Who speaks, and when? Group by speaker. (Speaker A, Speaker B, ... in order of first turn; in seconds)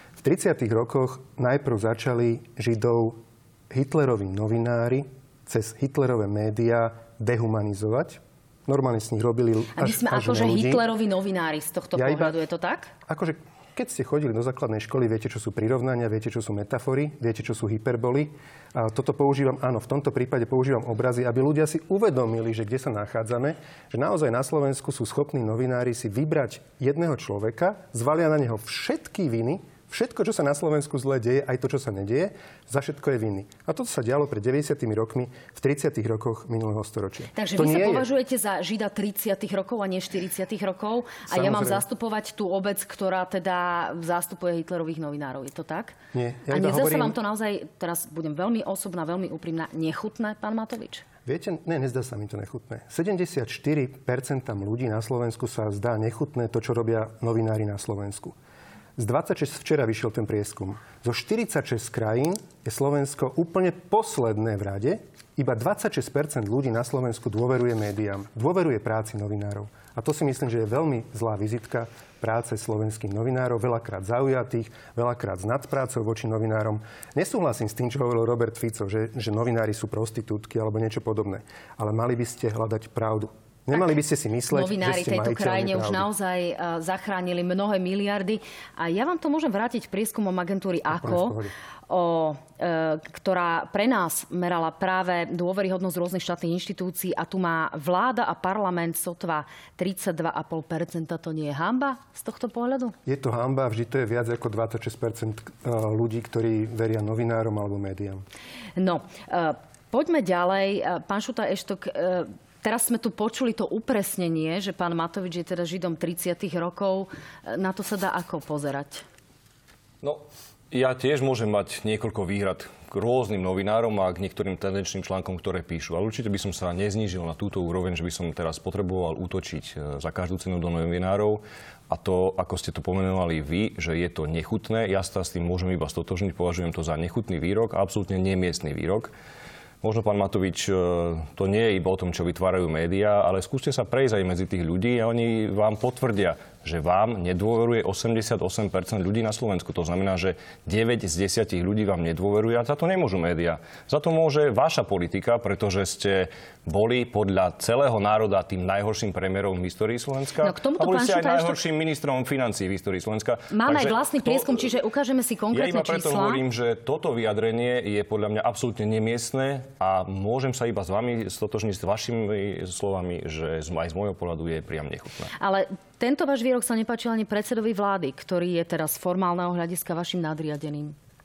Speaker A: 0.2-10.8, 11.9-12.3, 13.1-38.1, 41.3-41.8, 46.1-47.1, 51.2-58.3, 59.0-86.1, 90.9-91.5, 103.0-108.2
Speaker B: 9.8-12.9, 37.3-46.0, 46.5-51.0, 84.5-91.4, 91.9-102.9, 108.8-119.0, 160.4-161.6, 163.5-166.4, 175.4-180.9
Speaker C: 120.0-139.1, 139.8-164.6, 165.5-175.3